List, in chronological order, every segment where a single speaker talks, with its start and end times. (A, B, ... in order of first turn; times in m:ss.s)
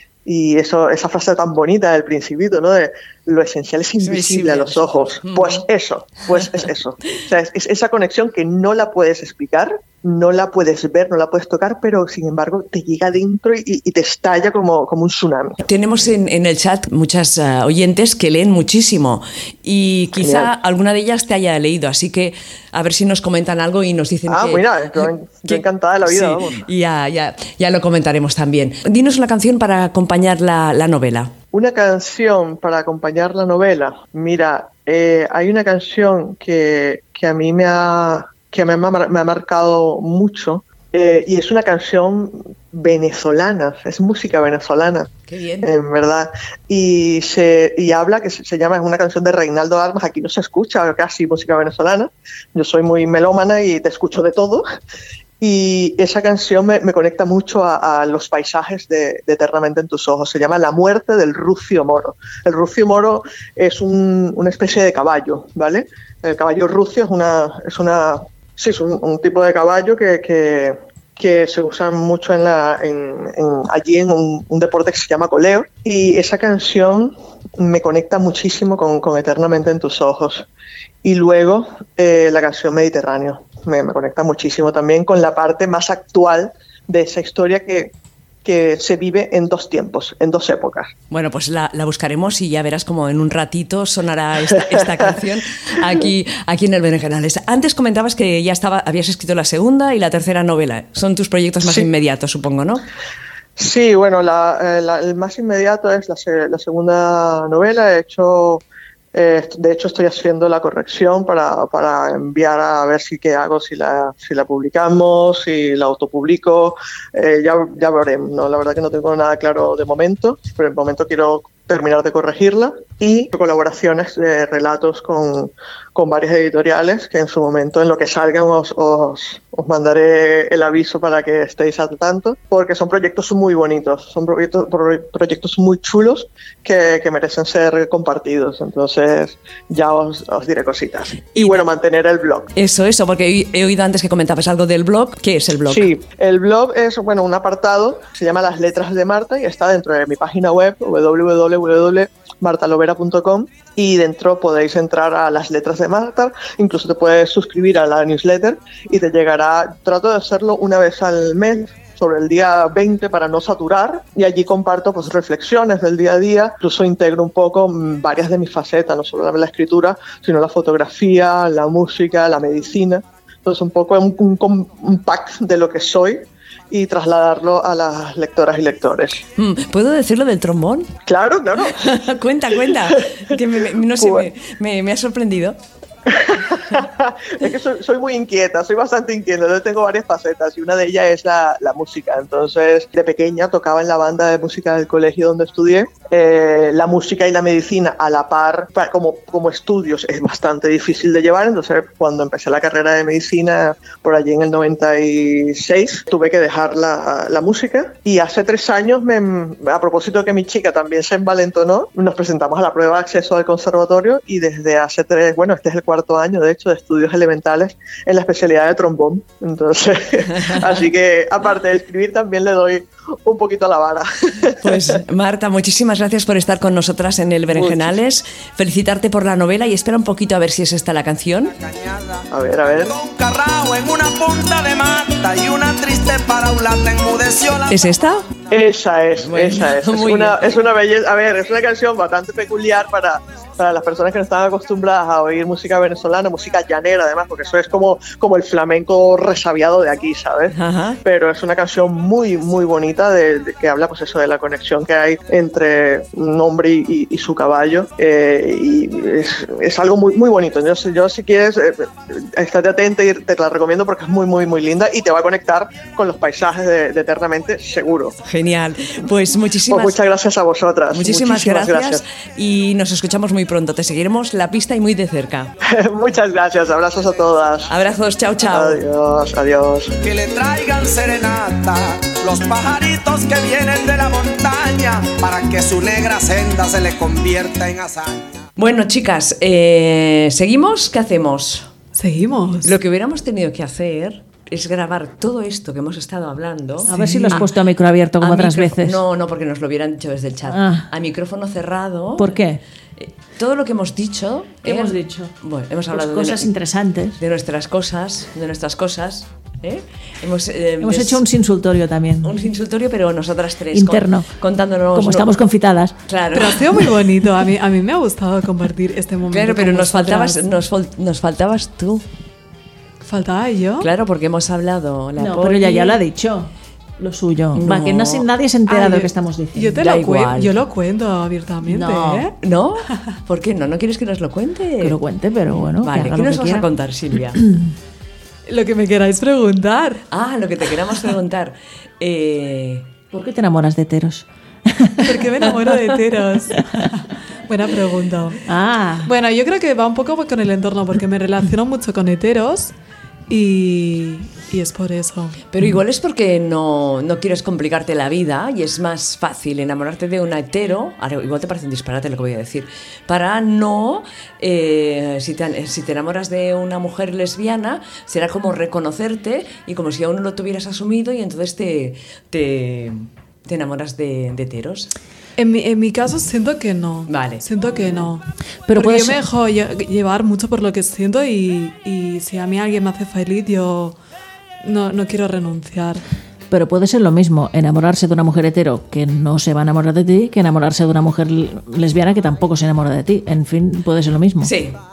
0:00.2-0:15.6 A
0:04.0-0:05.6 B
0:15.6-0:31.3 B
0:20.2-0:20.5 A
0:24.3-0:26.6 A
0:31.5-0:45.1 A
0:45.3-0:45.7 B
0:45.6-0:54.6 A
0:55.4-1:20.5 A
1:21.0-1:27.9 A
1:28.4-1:30.9 A
1:31.1-1:42.8 B
1:43.6-2:22.5 A
2:21.3-2:21.6 B
2:22.5-2:25.9 B
2:25.6-2:59.2 A
2:59.4-3:00.9 B
3:01.0-3:02.0 A
3:01.6-3:05.6 B
3:02.6-3:03.3 A
3:03.9-3:04.3 A
3:06.1-3:45.0 A
3:44.6-3:51.6 B
3:47.5-3:48.0 A
3:51.6-3:57.9 C
3:52.3-3:52.9 A
3:57.7-3:58.2 B
3:58.5-4:28.2 A
3:59.2-4:00.5 B
4:10.5-4:11.0 B
4:28.2-4:30.0 B
4:29.7-4:32.0 A
4:30.9-4:35.5 B
4:35.6-4:37.7 A
4:37.7-4:38.8 B
4:38.4-4:39.9 A
4:40.0-4:48.4 C
4:48.6-4:51.7 B
4:51.9-4:52.8 D
4:52.6-4:57.5 B
4:56.8-4:59.0 E
4:56.9-4:57.4 D
4:58.2-5:02.4 B
5:00.5-5:00.8 E
5:02.2-5:02.6 E
5:03.0-5:06.5 B
5:04.6-5:05.3 E
5:05.9-5:07.2 E
5:07.2-5:11.2 B
5:10.8-5:12.4 E
5:12.2-5:15.4 B
5:13.7-5:14.3 E
5:14.9-5:15.9 E
5:16.0-5:16.9 B
5:16.3-5:20.4 D
5:19.3-5:22.0 B
5:23.0-5:23.9 D
5:23.8-5:26.0 B
5:25.2-5:29.8 E
5:27.5-5:28.3 B
5:28.7-5:32.3 D
5:29.8-5:30.5 B
5:31.6-5:32.3 E
5:32.4-5:35.0 B
5:34.8-5:36.7 E
5:35.7-5:37.4 B
5:37.3-5:37.7 E
5:38.4-5:40.0 D
5:40.1-5:42.9 B
5:43.1-5:45.3 E
5:45.0-5:48.4 D
5:46.6-5:46.8 E
5:48.4-5:49.1 E
5:49.0-5:52.7 D
5:53.3-5:55.4 D
5:55.5-6:14.9 B
6:15.4-6:18.2 D
6:17.1-6:17.4 B
6:18.7-6:19.2 E
6:18.7-6:24.0 D
6:24.6-6:26.0 D
6:26.5-6:34.5 E
6:34.4-6:34.8 B